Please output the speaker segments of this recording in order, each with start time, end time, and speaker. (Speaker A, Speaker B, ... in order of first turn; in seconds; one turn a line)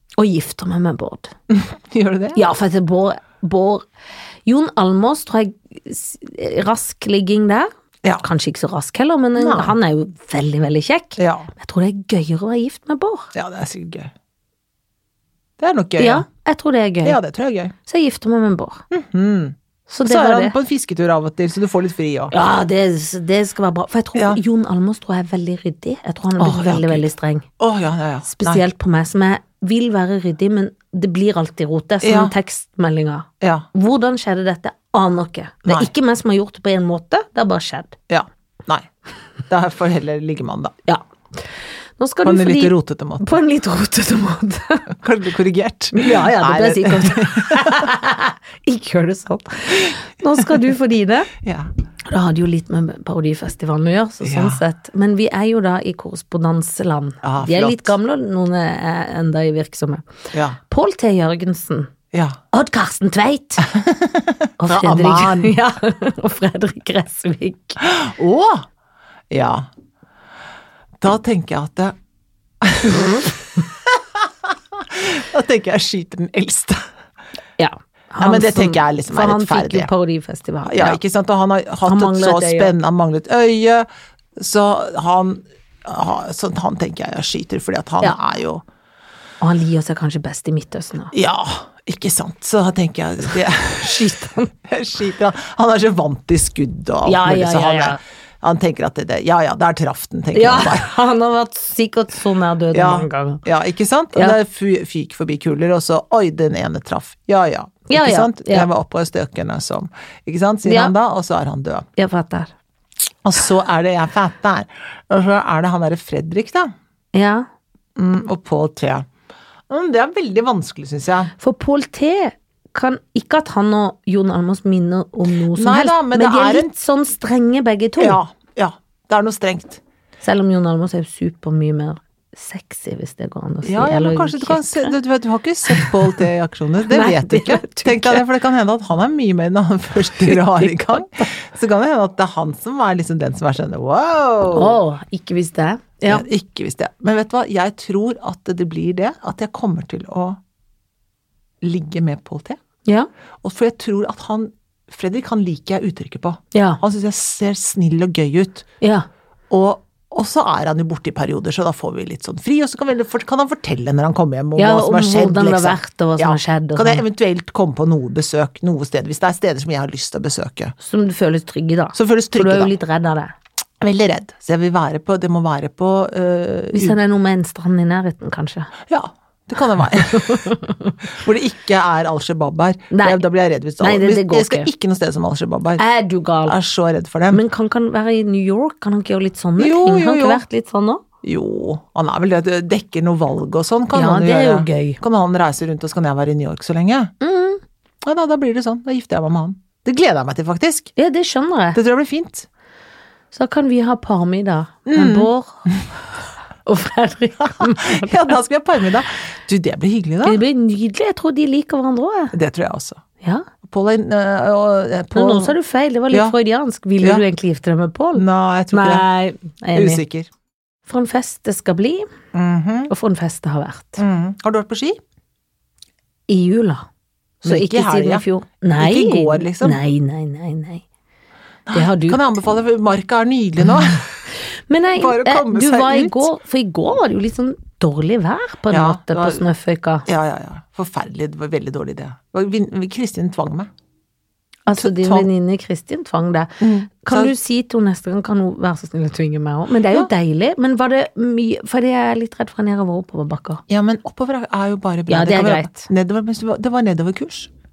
Speaker A: 0.2-1.3
Speaker B: 1.5-2.5
Speaker A: 2.3-3.9
Speaker A: 4.5-13.3
Speaker B: 9.3-9.8
Speaker B: 11.2-11.5
Speaker B: 13.3-14.1
Speaker B: 15.6-16.2
Speaker A: 16.0-17.2
Speaker B: 17.0-17.7
Speaker A: 17.9-18.8
Speaker B: 18.9-22.3
Speaker A: 19.9-20.6
Speaker A: 22.3-27.4
Speaker B: 24.1-24.4
Speaker B: 26.4-27.1
Speaker B: 27.6-28.6
Speaker A: 28.3-38.0
Speaker B: 32.0-32.3
Speaker B: 33.4-33.7
Speaker B: 35.7-35.9
Speaker B: 38.1-38.9
Speaker B: 39.5-40.7
Speaker A: 40.9-44.9
Speaker B: 42.2-43.3
Speaker B: 44.9-47.9
Speaker A: 45.9-51.3
Speaker B: 51.4-51.7
Speaker A: 52.0-61.9
Speaker B: 54.2-54.6
Speaker B: 57.2-57.9
Speaker B: 60.3-60.6
Speaker B: 62.1-62.4
Speaker A: 62.5-63.7
Speaker B: 63.6-65.6
Speaker A: 64.6-67.8
Speaker B: 67.8-68.7
Speaker B: 69.3-69.7
Speaker B: 71.0-72.0
Speaker B: 72.6-76.8
Speaker A: 72.8-73.3
Speaker A: 77.6-81.0
Speaker B: 78.2-79.9
Speaker B: 80.7-88.6
Speaker A: 81.9-82.7
Speaker A: 89.4-91.1
Speaker B: 91.1-100.9
Speaker A: 93.8-94.5
Speaker A: 97.0-98.0
Speaker A: 100.3-103.5
Speaker B: 102.7-111.8
Speaker A: 107.9-108.7
Speaker A: 110.6-110.9
Speaker A: 112.0-112.5
Speaker B: 113.2-116.7
Speaker A: 117.1-117.5
Speaker B: 118.0-119.0
Speaker B: 119.7-121.3
Speaker A: 121.4-128.2
Speaker B: 125.5-126.7
Speaker B: 128.0-129.8
Speaker A: 130.2-134.9
Speaker B: 133.6-144.8
Speaker A: 135.7-135.9
Speaker A: 136.9-138.2
Speaker A: 140.1-141.3
Speaker A: 144.5-146.3
Speaker B: 146.1-150.4
Speaker B: 151.6-152.6
Speaker B: 153.4-158.7
Speaker A: 156.5-156.8
Speaker A: 158.8-159.1
Speaker B: 159.5-170.7
Speaker A: 164.6-167.0
Speaker A: 170.8-173.3
Speaker B: 171.9-172.7
Speaker B: 173.8-177.0
Speaker A: 176.7-178.7
Speaker B: 178.9-185.8
Speaker A: 180.2-180.9
Speaker A: 182.9-183.2
Speaker A: 183.8-184.7
Speaker A: 185.8-186.6
Speaker B: 186.4-187.4
Speaker A: 187.3-191.0
Speaker B: 189.6-190.4
Speaker B: 191.2-197.1
Speaker A: 193.9-195.0
Speaker A: 197.2-197.6
Speaker B: 198.0-200.9
Speaker A: 200.9-201.8
Speaker B: 201.7-202.5
Speaker A: 203.3-205.8
Speaker B: 204.8-205.8
Speaker A: 206.7-208.3
Speaker B: 207.4-210.4
Speaker A: 210.2-212.3
Speaker B: 212.3-213.0
Speaker A: 213.2-213.5
Speaker B: 213.6-215.6
Speaker A: 215.1-220.0
Speaker B: 218.1-219.1
Speaker B: 219.7-220.3
Speaker A: 220.8-222.1
Speaker B: 222.3-222.9
Speaker A: 222.9-224.0
Speaker B: 224.0-225.0
Speaker A: 226.3-226.8
Speaker A: 227.4-230.8
Speaker B: 227.4-228.2
Speaker B: 228.8-229.8
Speaker B: 231.7-234.2
Speaker A: 231.7-232.2
Speaker A: 234.4-240.1
Speaker B: 234.9-236.3
Speaker B: 238.7-239.4
Speaker B: 240.1-243.7
Speaker A: 244.7-253.6
Speaker B: 244.7-245.3
Speaker B: 246.6-247.3
Speaker B: 253.7-257.5
Speaker A: 255.1-255.9